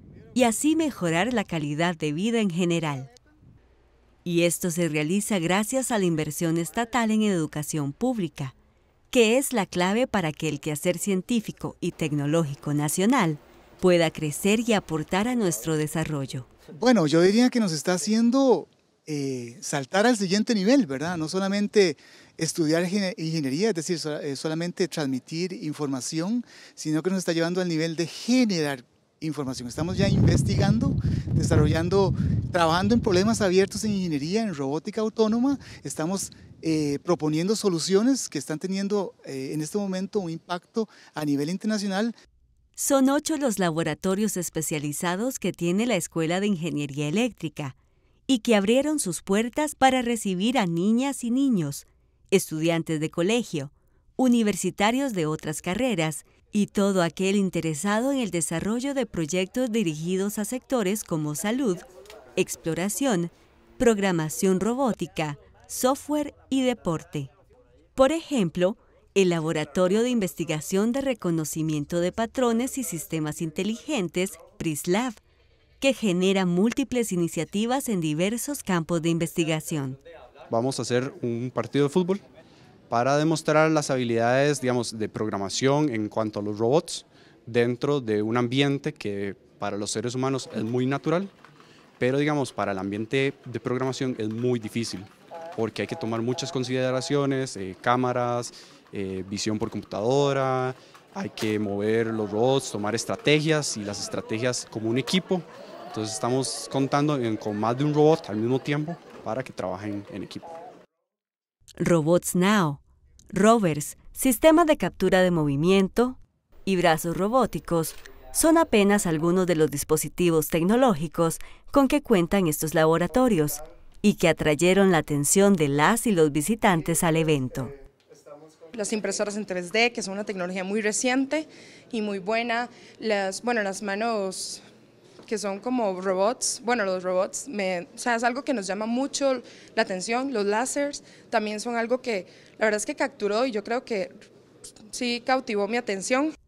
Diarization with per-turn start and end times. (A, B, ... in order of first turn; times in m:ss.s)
0:00.3-0:03.1 A
0:04.2-0:08.5 A
0:09.1-0:16.5 A
0:16.7-0:42.1 B
0:42.8-0:47.8 A
0:48.3-1:07.3 A
1:08.0-1:15.2 A
1:15.8-1:20.0 A
1:20.5-1:22.2 C
1:22.9-1:31.3 C
1:32.0-1:50.5 C
1:51.8-2:07.7 A
2:08.7-2:14.6 D
2:15.2-2:24.1 D
2:24.9-2:26.3 D